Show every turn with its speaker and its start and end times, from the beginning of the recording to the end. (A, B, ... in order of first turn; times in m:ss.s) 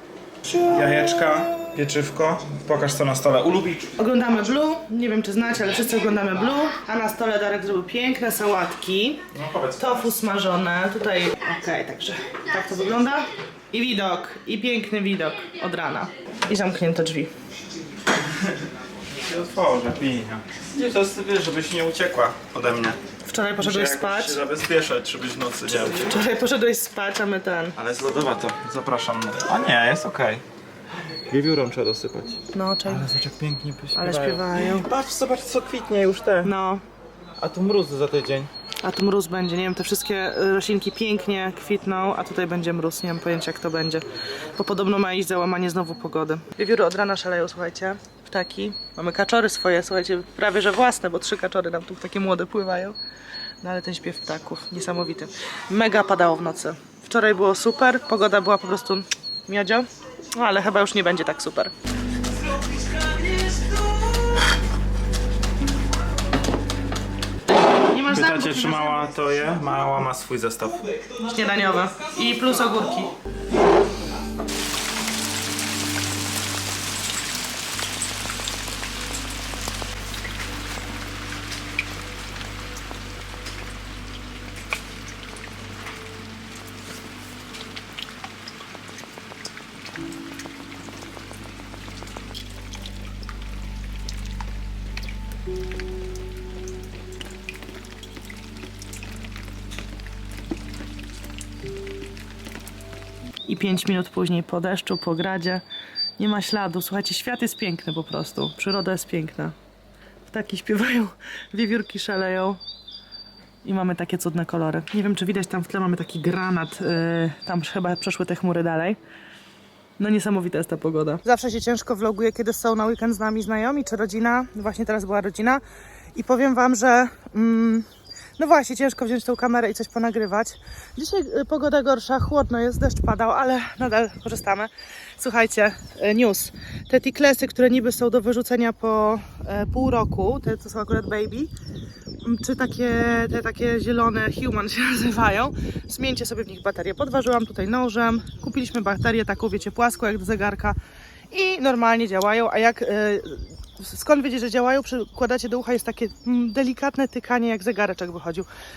0:00.5-0:03.9 A
0:00.5-0:01.0 B
0:04.0-0:09.2 B
0:09.3-0:10.1 A
0:09.8-0:17.3 B
0:19.1-0:23.0 A
0:23.2-0:24.4 B
0:23.6-0:26.2 A
0:25.9-0:27.8 B
0:27.8-0:30.4 A
0:31.2-0:36.5 A
0:32.5-0:33.1 B
0:33.9-0:34.9 B
0:36.4-0:36.8 B
0:37.4-0:38.5 A
0:38.8-0:53.0 B
0:53.6-1:01.7 B
1:03.1-1:03.7 B
1:07.7-1:09.3 B
1:08.0-1:10.8 A
1:11.2-1:13.1 B
1:43.4-1:45.6 B
1:46.2-1:49.5 B
1:50.2-1:52.6 B
1:53.6-1:59.0 B
2:00.0-2:05.6 B
2:06.1-2:21.5 B
2:22.2-2:30.8 B
2:31.3-2:38.5 B